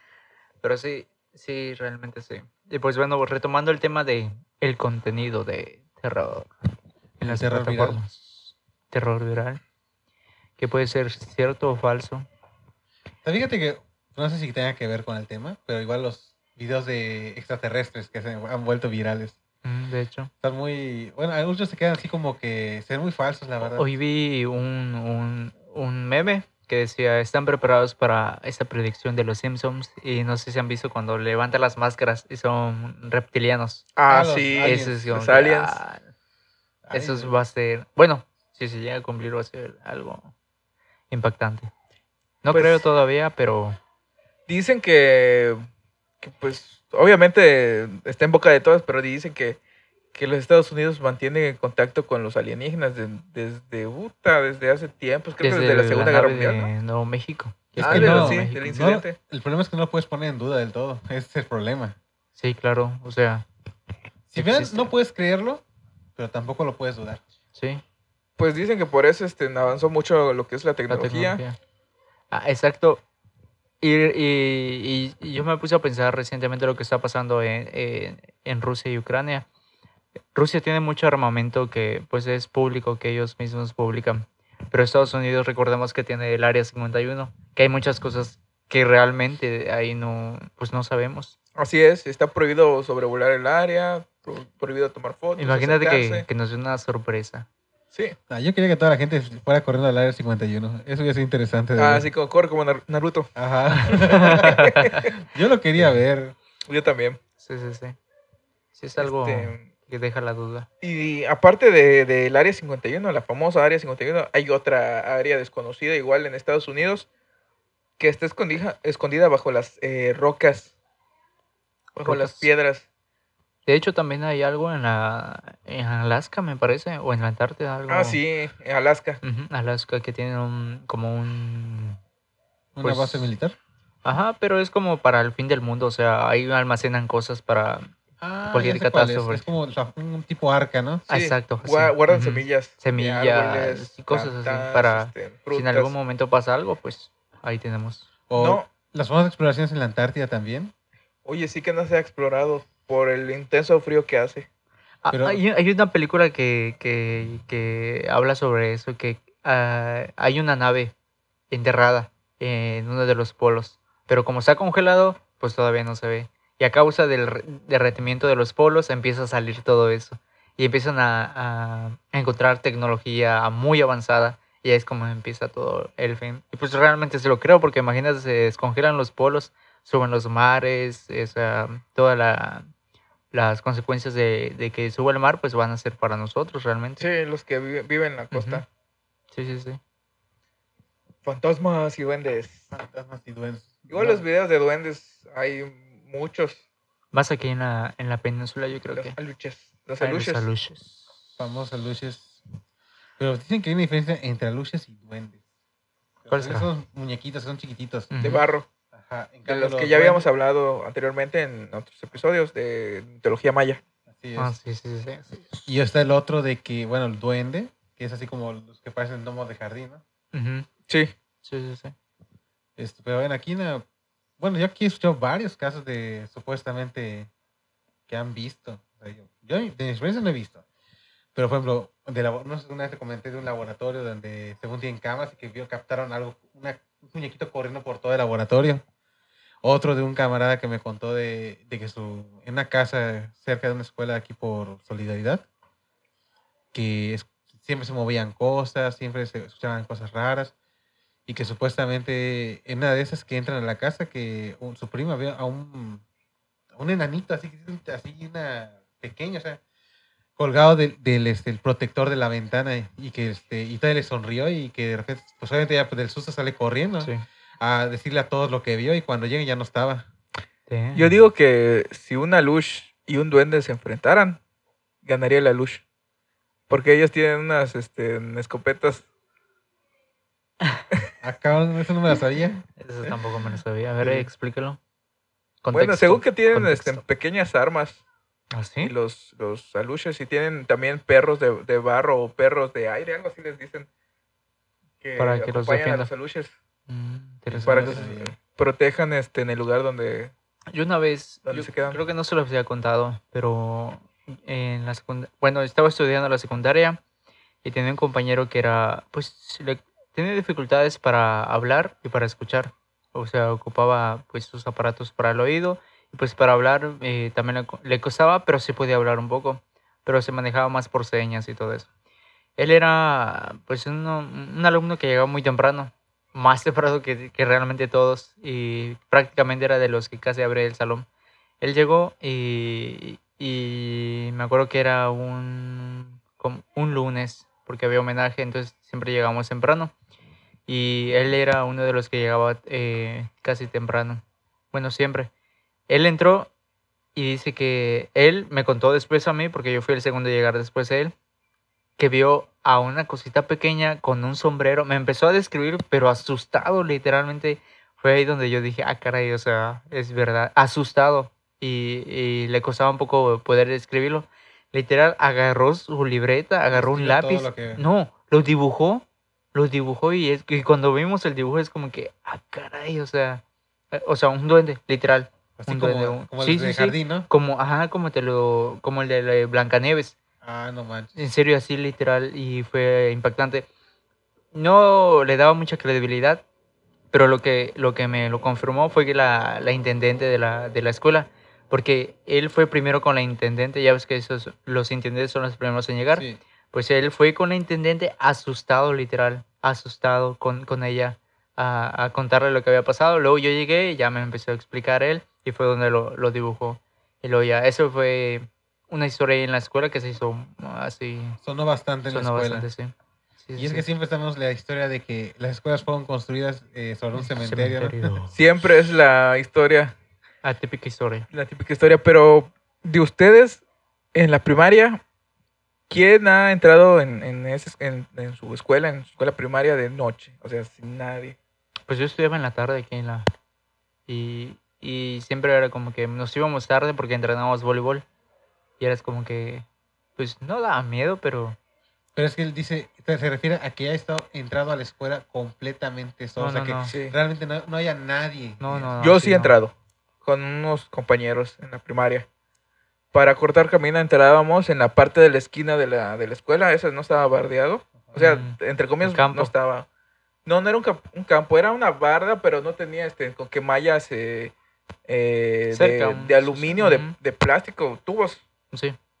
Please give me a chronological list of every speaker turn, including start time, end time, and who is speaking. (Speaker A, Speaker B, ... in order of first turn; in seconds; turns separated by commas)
Speaker A: 0.6-6.5, Speaker A: 7.2-9.6, Speaker B: 7.2-8.0, Speaker A: 10.6-12.3, Speaker B: 13.2-19.4, Speaker A: 19.6-20.3, Speaker B: 20.4-23.9, Speaker A: 23.7-33.9, Speaker C: 34.0-35.8, Speaker B: 34.1-35.0, Speaker A: 34.6-36.0, Speaker B: 36.8-37.4, Speaker A: 36.9-40.3, Speaker A: 41.1-41.7, Speaker A: 42.4-43.8, Speaker C: 42.5-42.9, Speaker C: 44.5-45.6, Speaker C: 46.2-49.6, Speaker C: 50.1-56.7, Speaker A: 55.4-58.6, Speaker B: 57.8-62.0, Speaker C: 57.8-59.1, Speaker A: 62.4-63.4, Speaker B: 64.3-65.6, Speaker A: 64.3-64.9, Speaker B: 66.2-67.2, Speaker A: 67.5-67.8, Speaker C: 68.4-71.4, Speaker A: 70.9-71.6, Speaker A: 72.3-73.0, Speaker A: 73.8-79.5, Speaker A: 80.3-91.3, Speaker C: 91.5-96.3, Speaker A: 95.4-97.5, Speaker B: 98.3-102.1, Speaker C: 101.8-103.3, Speaker B: 103.3-104.6, Speaker A: 103.9-105.0, Speaker C: 104.2-105.1, Speaker B: 105.2-106.3, Speaker C: 106.7-107.2, Speaker A: 107.4-108.0, Speaker A: 108.8-110.7, Speaker C: 109.0-109.7, Speaker C: 110.8-117.0, Speaker C: 118.0-120.7, Speaker C: 122.0-122.8, Speaker A: 122.0-122.5, Speaker A: 123.7-128.2, Speaker C: 127.9-129.2, Speaker A: 129.2-132.0, Speaker B: 132.7-133.6, Speaker A: 132.8-133.3, Speaker A: 134.0-137.9, Speaker B: 138.2-141.0, Speaker A: 138.5-139.4, Speaker C: 141.1-145.9, Speaker A: 141.1-148.1, Speaker B: 148.3-150.7, Speaker C: 148.3-148.7, Speaker C: 151.2-154.5, Speaker A: 155.0-160.9, Speaker B: 155.1-155.4, Speaker A: 161.5-182.7, Speaker A: 183.3-187.1, Speaker C: 187.0-188.6, Speaker A: 188.3-188.6, Speaker A: 189.3-189.8, Speaker C: 191.2-192.7, Speaker B: 192.7-194.2, Speaker C: 193.9-196.6, Speaker A: 197.1-199.2, Speaker C: 198.9-200.5, Speaker A: 200.0-201.1, Speaker B: 201.4-202.4, Speaker B: 203.2-205.4, Speaker B: 206.2-208.1, Speaker A: 206.3-206.7, Speaker A: 208.1-208.4, Speaker C: 208.2-208.7, Speaker B: 208.9-210.3, Speaker C: 209.4-213.8, Speaker B: 214.1-214.6, Speaker A: 214.4-215.5, Speaker B: 215.7-220.0, Speaker A: 220.3-220.7, Speaker A: 221.4-221.9, Speaker B: 222.8-223.8, Speaker B: 224.4-227.3, Speaker B: 228.1-230.6, Speaker B: 231.3-238.8, Speaker B: 239.6-245.4, Speaker B: 246.7-250.5, Speaker B: 251.3-256.0, Speaker B: 256.7-259.6, Speaker B: 260.4-270.1, Speaker A: 270.7-271.1, Speaker C: 270.9-274.4, Speaker C: 275.0-275.8, Speaker C: 276.7-279.0, Speaker B: 281.2-283.1, Speaker A: 282.8-284.8, Speaker B: 284.0-284.3, Speaker A: 285.6-287.0, Speaker C: 285.7-288.0, Speaker A: 288.5-288.9, Speaker C: 288.8-293.9, Speaker C: 295.0-296.5, Speaker A: 295.2-296.1, Speaker A: 296.9-298.1, Speaker B: 297.5-298.3, Speaker C: 297.6-300.3, Speaker A: 300.7-307.0, Speaker C: 301.4-302.0, Speaker A: 307.6-321.9, Speaker A: 322.6-331.1, Speaker A: 331.6-339.9, Speaker A: 340.7-345.3, Speaker A: 345.9-346.5, Speaker A: 347.1-351.1, Speaker A: 352.0-380.2, Speaker B: 366.7-367.8, Speaker B: 375.6-377.3, Speaker B: 380.4-381.2, Speaker A: 381.1-383.6, Speaker A: 384.5-386.4, Speaker A: 387.1-411.4, Speaker B: 396.1-396.4, Speaker B: 411.4-412.7, Speaker A: 412.1-413.9, Speaker B: 413.6-418.2, Speaker A: 417.1-418.3, Speaker C: 418.3-419.9, Speaker A: 420.4-421.3, Speaker C: 421.3-423.6, Speaker C: 424.1-425.0, Speaker C: 425.9-431.4, Speaker A: 431.9-433.2, Speaker A: 434.1-438.0, Speaker A: 438.8-439.6, Speaker A: 440.2-441.6, Speaker B: 442.1-448.9, Speaker A: 446.4-446.9, Speaker C: 446.9-447.1, Speaker A: 448.6-449.6, Speaker C: 449.0-449.7, Speaker C: 450.2-452.2, Speaker C: 453.1-459.9, Speaker A: 458.1-459.5, Speaker C: 460.4-464.5, Speaker C: 465.1-468.4, Speaker A: 465.7-467.1, Speaker A: 468.7-469.0